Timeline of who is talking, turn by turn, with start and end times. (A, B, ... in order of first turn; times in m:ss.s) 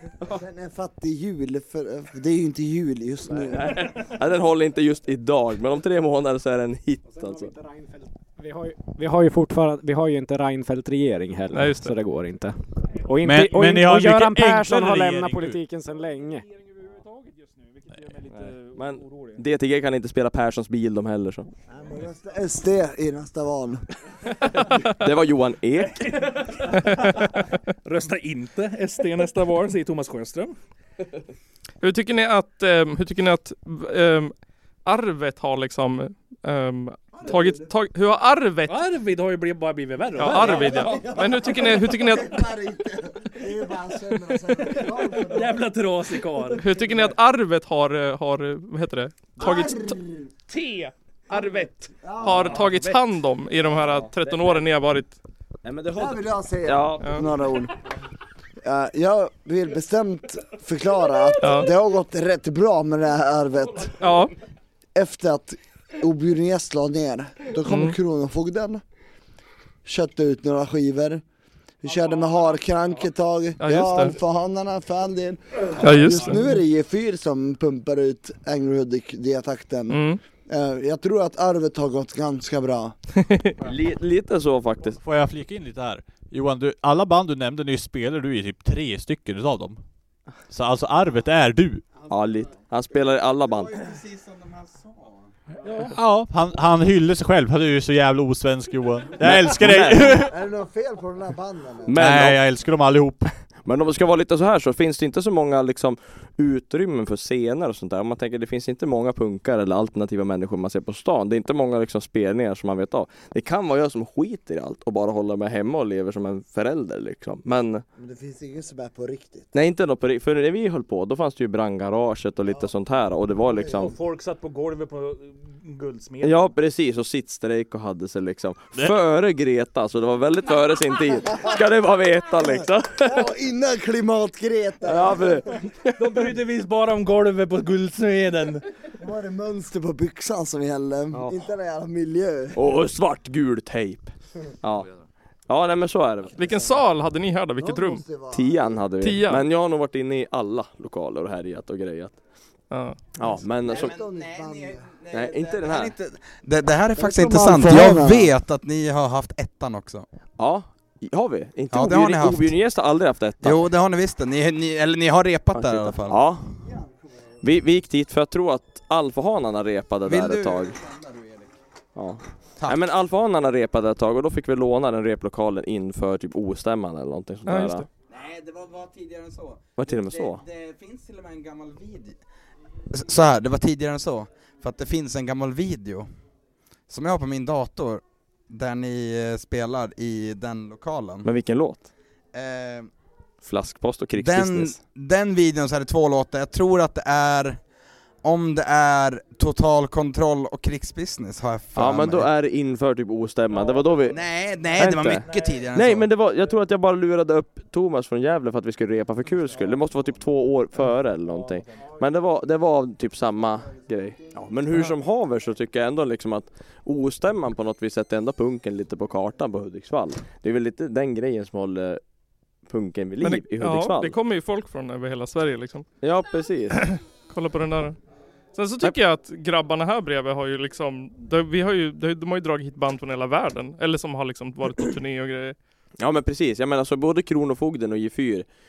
0:00.3-0:03.9 A
0:03.5-0:07.5 B
0:07.1-0:08.1 C
0:08.4-0:16.5 D
0:11.5-0:11.9 E
0:13.2-0:15.6 F
0:16.1-0:19.4 C
0:18.3-0:21.5 B
0:21.7-0:23.8 A
0:24.6-0:25.0 E
0:25.0-0:26.6 B
0:26.0-0:30.5 C
0:31.8-0:38.8 E
0:37.2-0:37.7 A
0:38.7-0:40.9 C
0:40.2-0:42.5 E
0:40.2-0:45.6 A
0:44.8-0:46.6 C
0:46.6-0:49.9 E
0:49.4-0:50.3 A
0:50.5-0:50.9 C
0:51.3-0:55.2 E
0:52.0-0:53.0 A
0:52.3-0:52.9 C
0:53.7-0:54.6 B
0:55.6-0:57.3 B
0:55.9-0:57.8 A
0:58.6-1:04.1 A
1:01.4-1:01.7 E
1:04.0-1:04.3 E
1:04.9-1:08.8 A
1:07.7-1:08.0 E
1:09.8-1:11.2 A
1:11.8-1:23.0 A
1:12.1-1:12.6 C
1:13.6-1:14.1 E
1:15.8-1:16.4 E
1:19.9-1:20.2 E
1:23.6-1:25.0 B
1:25.0-1:29.8 F
1:30.5-1:31.9 F
1:32.1-1:33.8 B
1:33.4-1:35.3 G
1:35.6-1:35.9 C
1:35.9-1:40.3 F
1:39.2-1:40.2 B
1:40.3-1:42.0 A
1:41.8-1:42.4 B
1:41.9-1:43.4 F
1:43.6-1:57.8 B
1:58.0-1:59.5 A
1:59.5-2:03.9 B
2:03.4-2:03.9 A
2:03.8-2:06.5 C
2:06.2-2:13.3 B
2:13.0-2:15.6 A
2:14.8-2:15.9 B
2:16.0-2:18.6 C
2:19.0-2:22.7 A
2:21.1-2:21.5 B
2:22.5-2:24.9 B
2:25.5-2:26.4 B
2:26.3-2:28.0 E
2:26.4-2:26.8 A
2:27.6-2:28.8 A
2:28.3-2:32.2 B
2:29.0-2:29.4 E
2:32.7-2:33.0 E
2:33.1-2:34.0 B
2:33.2-2:34.9 A
2:33.6-2:40.0 G
2:35.1-2:35.9 B
2:37.0-2:38.3 A
2:40.4-2:43.7 B
2:41.7-2:42.5 G
2:43.4-2:46.2 G
2:45.5-2:46.5 B
2:46.6-2:47.3 A
2:47.4-2:50.8 B
2:50.0-2:51.5 G
2:52.0-2:57.8 B
2:57.5-2:57.9 E
2:58.1-3:02.2 G
2:59.8-3:00.4 B
3:02.9-3:06.1 G
3:06.9-3:11.3 G
3:11.2-3:11.9 B
3:12.3-3:12.9 G
3:13.4-3:14.8 B
3:14.2-3:17.6 G
3:18.2-3:22.3 G
3:21.7-3:24.2 B
3:23.5-3:24.1 C
3:24.1-3:26.1 G
3:24.8-3:42.0 B
3:25.2-3:25.6 C
3:31.2-3:31.8 C
3:42.6-3:44.2 B
3:43.2-3:45.8 E
3:46.0-3:47.0 B
3:46.9-3:48.0 E
3:48.5-3:55.6 E
3:56.0-3:58.5 B